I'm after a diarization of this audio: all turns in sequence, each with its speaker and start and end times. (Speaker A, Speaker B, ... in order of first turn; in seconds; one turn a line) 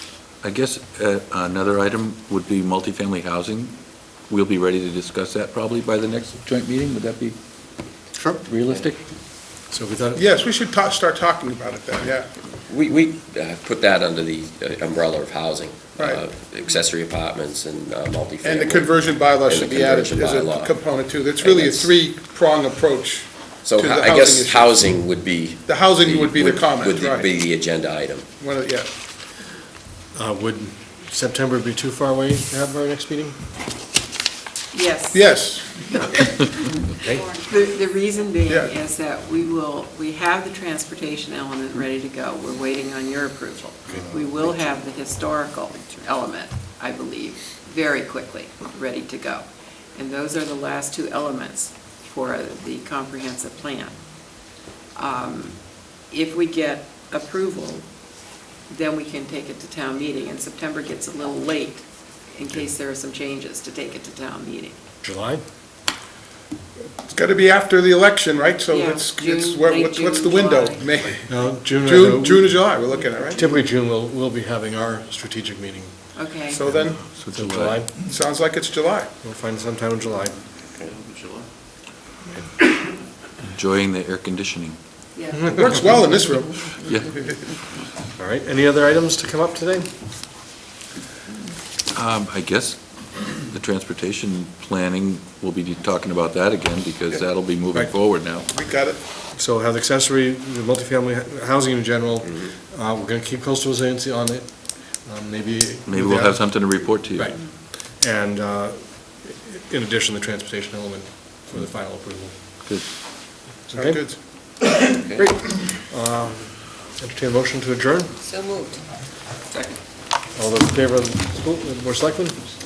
Speaker A: 0.4-3.8
Speaker A: 4.3-7.4
Speaker B: 8.2-8.4
Speaker A: 8.4-9.0
Speaker B: 9.7-10.4
Speaker C: 10.1-12.3
Speaker D: 12.7-21.9
Speaker C: 16.0-16.2
Speaker C: 18.4-24.9
Speaker D: 23.6-28.2
Speaker C: 25.6-27.3
Speaker C: 28.4-28.9
Speaker B: 30.1-33.4
Speaker E: 34.7-36.4
Speaker C: 35.1-35.9
Speaker B: 37.0-37.2
Speaker E: 37.4-54.0
Speaker C: 38.5-38.7
Speaker B: 43.9-44.2
Speaker E: 54.9-57.9
Speaker E: 58.7-64.8
Speaker B: 65.0-65.4
Speaker C: 67.0-73.4
Speaker E: 68.7-71.1
Speaker B: 71.3-72.7
Speaker B: 73.3-75.9
Speaker E: 76.1-76.6
Speaker C: 76.5-77.0
Speaker B: 76.6-77.9
Speaker A: 77.0-77.9
Speaker C: 78.0-79.1
Speaker B: 79.2-80.3
Speaker D: 80.7-81.4
Speaker A: 83.5-84.8
Speaker E: 85.1-85.5
Speaker B: 85.3-85.8
Speaker C: 85.5-87.0
Speaker B: 88.2-89.9
Speaker A: 91.9-92.8
Speaker A: 93.4-98.5
Speaker C: 98.5-99.0
Speaker B: 99.3-112.3
Speaker A: 105.8-107.3
Speaker B: 113.7-114.2
Speaker C: 113.7-114.2
Speaker B: 115.1-118.1
Speaker E: 118.3-118.7
Speaker B: 120.3-122.4